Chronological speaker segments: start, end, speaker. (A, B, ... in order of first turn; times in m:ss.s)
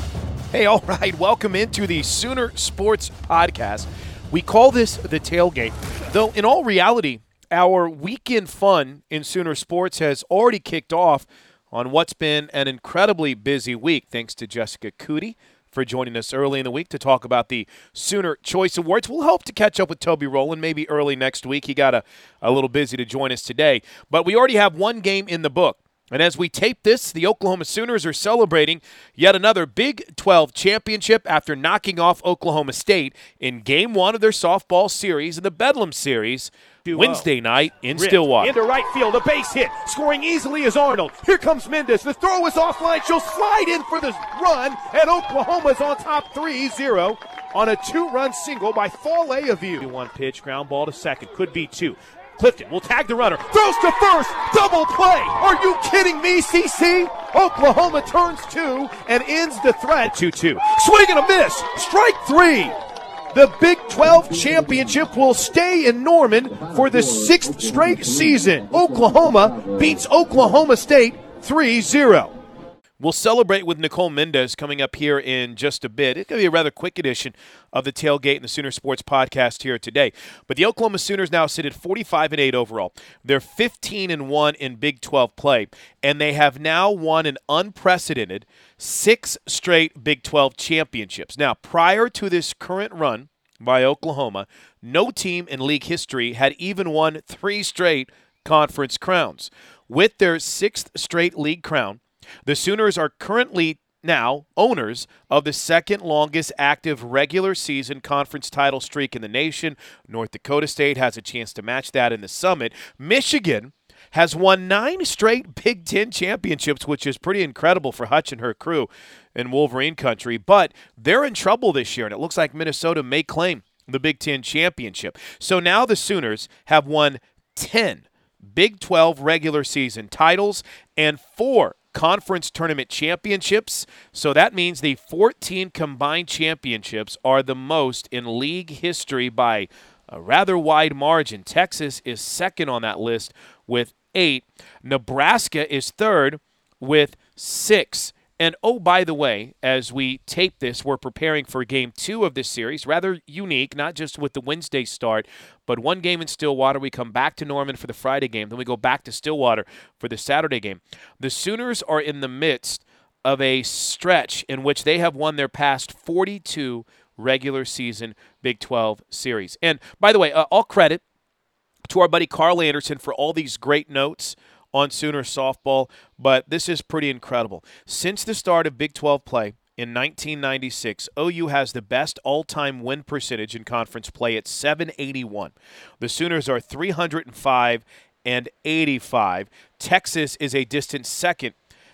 0:00.5-0:38.5 A
0:36.8-0:58.5 B
0:49.8-0:51.3 A
0:54.1-0:54.4 A
0:56.7-1:00.8 A
0:59.1-1:02.7 B
1:01.3-1:01.7 A
1:03.3-1:05.3 B
1:03.5-1:04.3 A
1:05.1-1:06.7 A
1:06.6-1:10.5 B
1:07.4-1:07.7 A
1:08.6-1:12.3 A
1:13.0-2:51.0 A
2:51.8-3:11.5 A